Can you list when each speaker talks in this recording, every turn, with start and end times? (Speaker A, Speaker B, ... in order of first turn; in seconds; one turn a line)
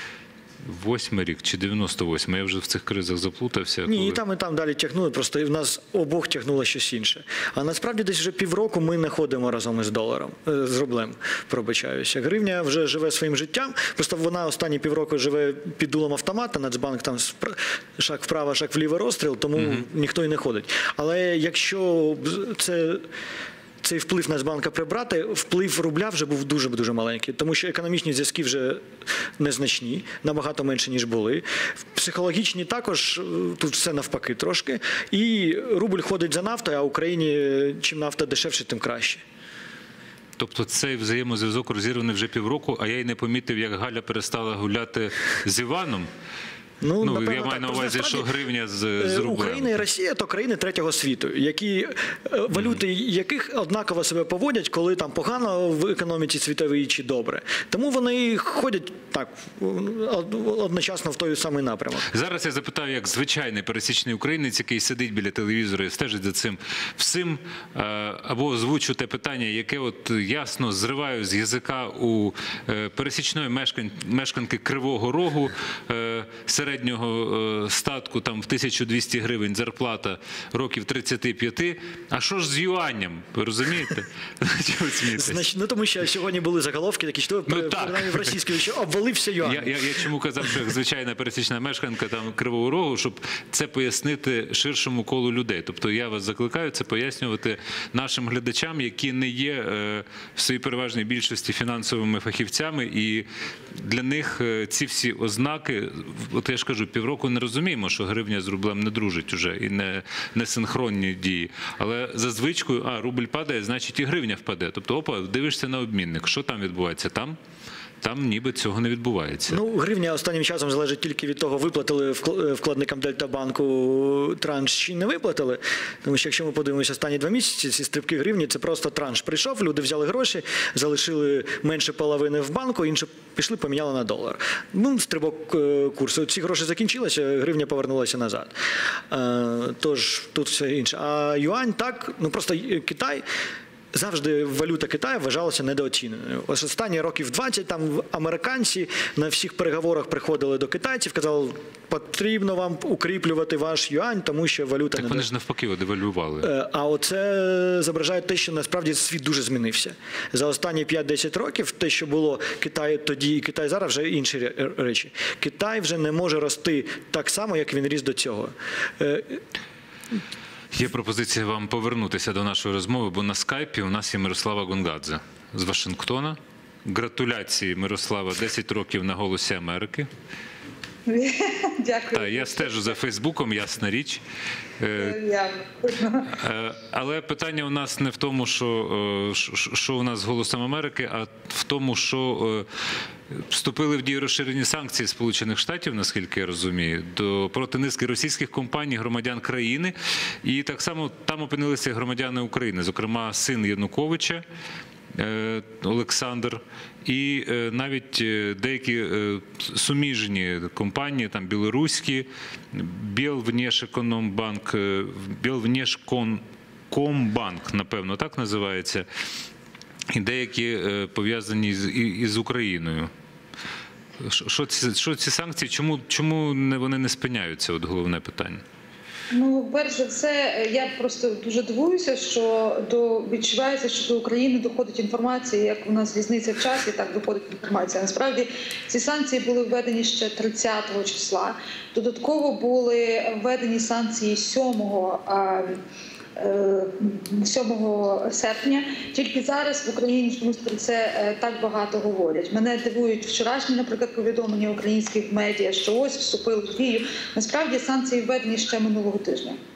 Speaker A: 0.6-4.2
Speaker B: 3.9-23.1
Speaker A: 19.6-19.9
Speaker B: 23.8-28.9
Speaker B: 29.4-39.2
Speaker A: 40.4-46.1
Speaker B: 46.8-48.3
Speaker A: 47.0-49.8
Speaker B: 49.0-62.1
Speaker A: 62.1-85.4
Speaker B: 85.1-90.1
Speaker A: 87.5-88.4
Speaker A: 89.4-117.4
Speaker A: 118.0-119.6
Speaker B: 119.5-138.5
Speaker B: 139.1-143.2
Speaker B: 143.9-155.3
Speaker A: 155.0-156.5
Speaker B: 156.4-169.4
Speaker A: 170.7-180.1
Speaker C: 181.1-182.9
Speaker A: 182.1-184.2
Speaker A: 184.8-185.2
Speaker C: 185.0-186.3
Speaker A: 186.3-192.7
Speaker A: 193.3-204.4
Speaker A: 205.1-219.1
Speaker A: 220.1-223.1
Speaker A: 224.2-228.6
Speaker C: 229.3-245.8
Speaker C: 246.4-259.6